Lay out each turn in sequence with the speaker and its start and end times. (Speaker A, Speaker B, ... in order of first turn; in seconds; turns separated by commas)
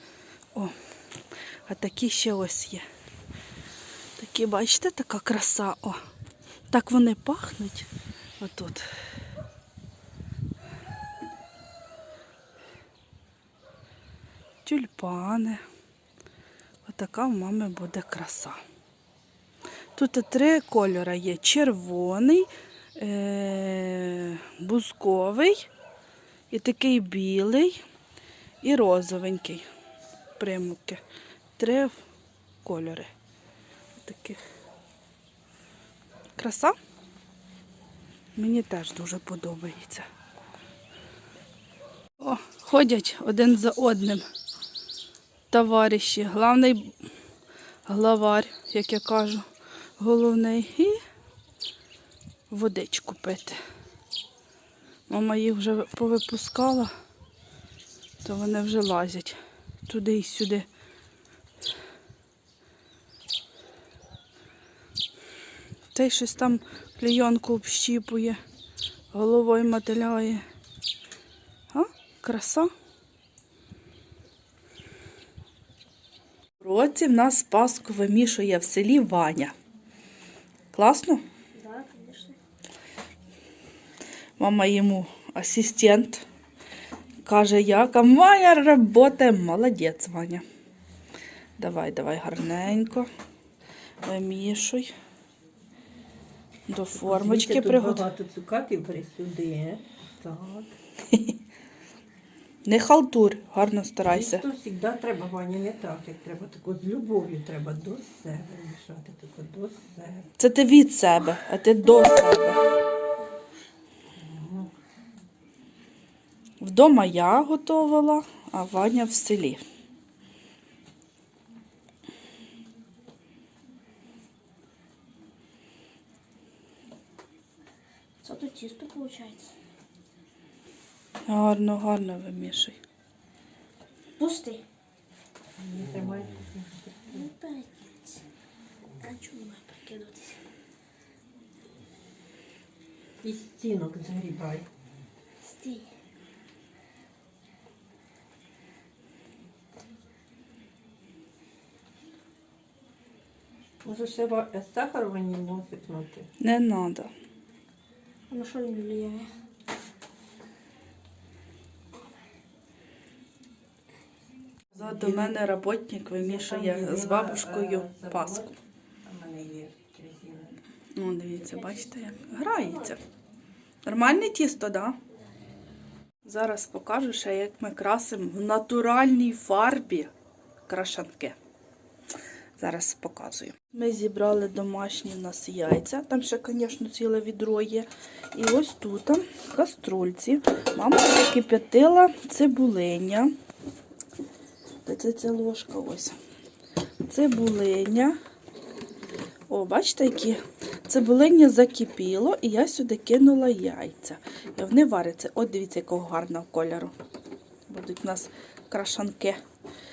Speaker A: 1.6-2.8, Speaker A: 4.2-6.0, Speaker A: 6.7-8.8, Speaker A: 14.6-15.6, Speaker A: 16.8-18.6, Speaker A: 19.9-25.7, Speaker A: 26.5-27.8, Speaker A: 28.6-29.6, Speaker A: 30.4-31.0, Speaker A: 31.6-31.9, Speaker A: 32.6-33.1, Speaker A: 34.0-34.4, Speaker A: 36.4-36.7, Speaker A: 38.4-40.0, Speaker A: 42.2-44.2, Speaker A: 45.5-46.9, Speaker A: 47.9-49.4, Speaker A: 50.0-51.0, Speaker A: 52.5-53.6, Speaker A: 55.1-56.9, Speaker A: 58.2-60.7, Speaker A: 65.9-68.4, Speaker A: 69.1-70.4, Speaker A: 71.7-72.7, Speaker A: 76.6-79.5, Speaker A: 80.7-81.2, Speaker B: 81.5-82.4, Speaker A: 84.4-86.2, Speaker A: 87.2-90.4, Speaker A: 91.6-93.1, Speaker A: 94.0-94.9, Speaker A: 96.7-98.1, Speaker C: 96.9-100.8, Speaker A: 102.7-104.5, Speaker C: 104.1-110.3, Speaker A: 110.4-112.6, Speaker C: 114.1-114.7, Speaker A: 116.6-119.6, Speaker B: 128.2-129.5, Speaker A: 131.3-132.8, Speaker B: 134.2-134.6, Speaker C: 135.6-137.3, Speaker B: 137.1-138.2, Speaker B: 139.0-140.4, Speaker C: 143.2-144.7, Speaker B: 145.4-145.9, Speaker C: 153.8-156.3, Speaker A: 156.4-157.1, Speaker B: 158.3-159.3, Speaker A: 164.7-168.5, Speaker C: 164.8-165.4, Speaker C: 166.1-170.6, Speaker A: 170.9-173.0, Speaker A: 173.8-175.0, Speaker A: 176.2-180.1, Speaker A: 180.7-181.3, Speaker A: 182.6-193.3, Speaker A: 194.8-196.2, Speaker A: 197.1-198.2, Speaker A: 199.5-206.9, Speaker A: 207.7-209.4